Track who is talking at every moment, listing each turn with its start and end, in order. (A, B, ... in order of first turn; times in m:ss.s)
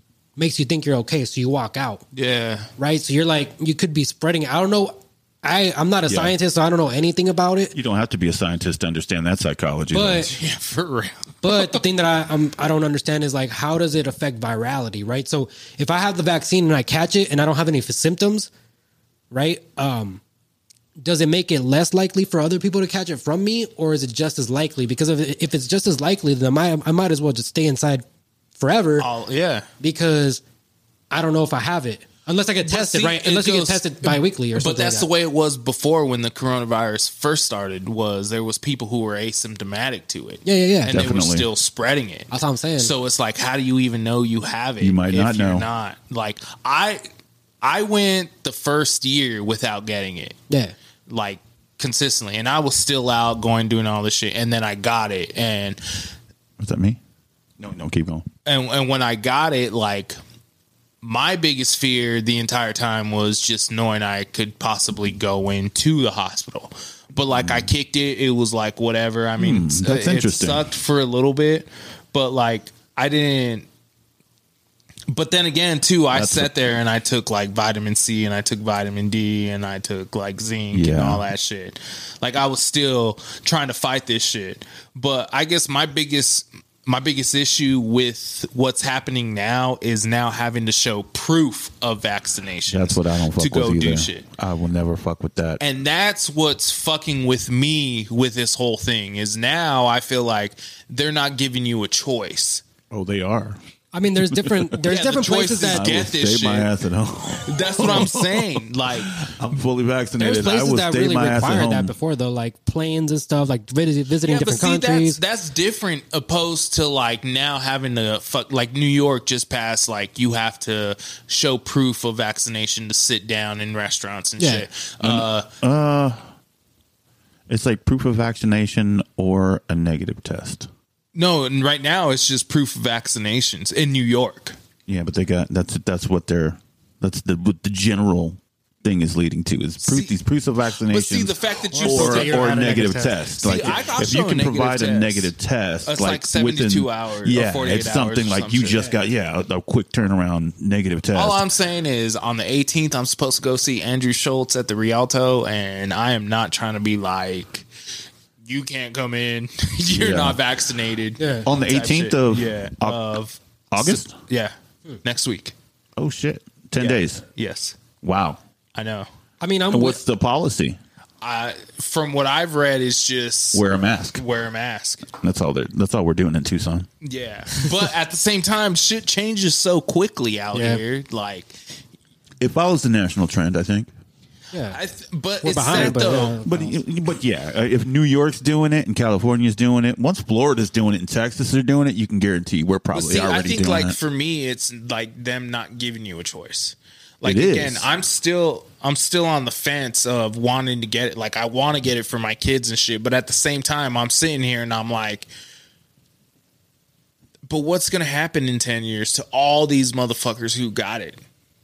0:00.4-0:02.0 A
0:02.1-0:02.7 B
0:02.8-0:07.7 A
0:06.1-0:06.4 C
0:07.7-0:10.3 C
0:09.9-0:10.3 A
0:10.2-0:11.8 B
0:11.4-0:18.5 A
0:19.3-0:20.2 A
0:21.0-0:28.0 A
0:28.6-0:29.1 A
0:29.0-0:29.7 B
0:29.8-0:30.4 A
0:31.1-0:35.1 A
0:32.6-0:47.0 B
0:40.4-0:41.0 A
0:40.9-0:41.5 C
0:42.3-0:42.9 A
0:44.8-0:45.7 C
0:47.6-0:50.4 B
0:50.5-0:50.8 A
0:51.1-0:56.1 B
0:56.6-0:57.0 C
0:57.6-0:58.3 C
0:58.5-1:00.2 B
1:01.0-1:13.7 B
1:07.4-1:07.7 C
1:09.4-1:10.7 C
1:15.1-1:34.3 B
1:16.1-1:16.8 C
1:20.7-1:21.2 C
1:32.7-1:35.6 C
1:35.6-1:42.6 B
1:42.9-1:43.6 C
1:43.9-1:45.9 A
1:44.3-1:44.7 C
1:44.8-1:46.7 B
1:45.7-1:52.0 C
1:47.4-1:49.3 B
1:50.2-1:55.2 A
1:54.2-2:05.5 B
2:04.4-2:04.7 A
2:05.0-2:06.2 C
2:07.5-2:10.7 C
2:11.2-2:14.6 B
2:14.9-2:31.4 C
2:19.8-2:20.2 B
2:20.8-2:22.6 B
2:21.7-2:23.9 A
2:23.4-2:25.3 B
2:25.8-2:29.0 B
2:31.1-2:37.7 B
2:38.4-2:45.5 B
2:39.9-2:40.4 C
2:41.2-2:41.5 A
2:41.4-2:43.0 C
2:43.7-2:44.2 C
2:46.0-2:47.2 C
2:46.8-2:47.8 B
2:48.0-2:48.4 C
2:48.8-2:49.1 B
2:49.4-2:50.0 A
2:49.7-2:50.8 C
2:51.2-2:53.6 B
2:53.5-2:54.2 C
2:54.2-2:55.1 B
2:55.1-2:56.9 C
2:57.0-3:01.5 B
3:00.5-3:00.8 A
3:02.4-3:03.9 C
3:04.5-3:04.8 A
3:04.7-3:06.4 B
3:05.4-3:06.8 A
3:05.7-3:14.0 C
3:12.9-3:25.3 B
3:17.2-3:17.9 C
3:27.5-3:31.2 B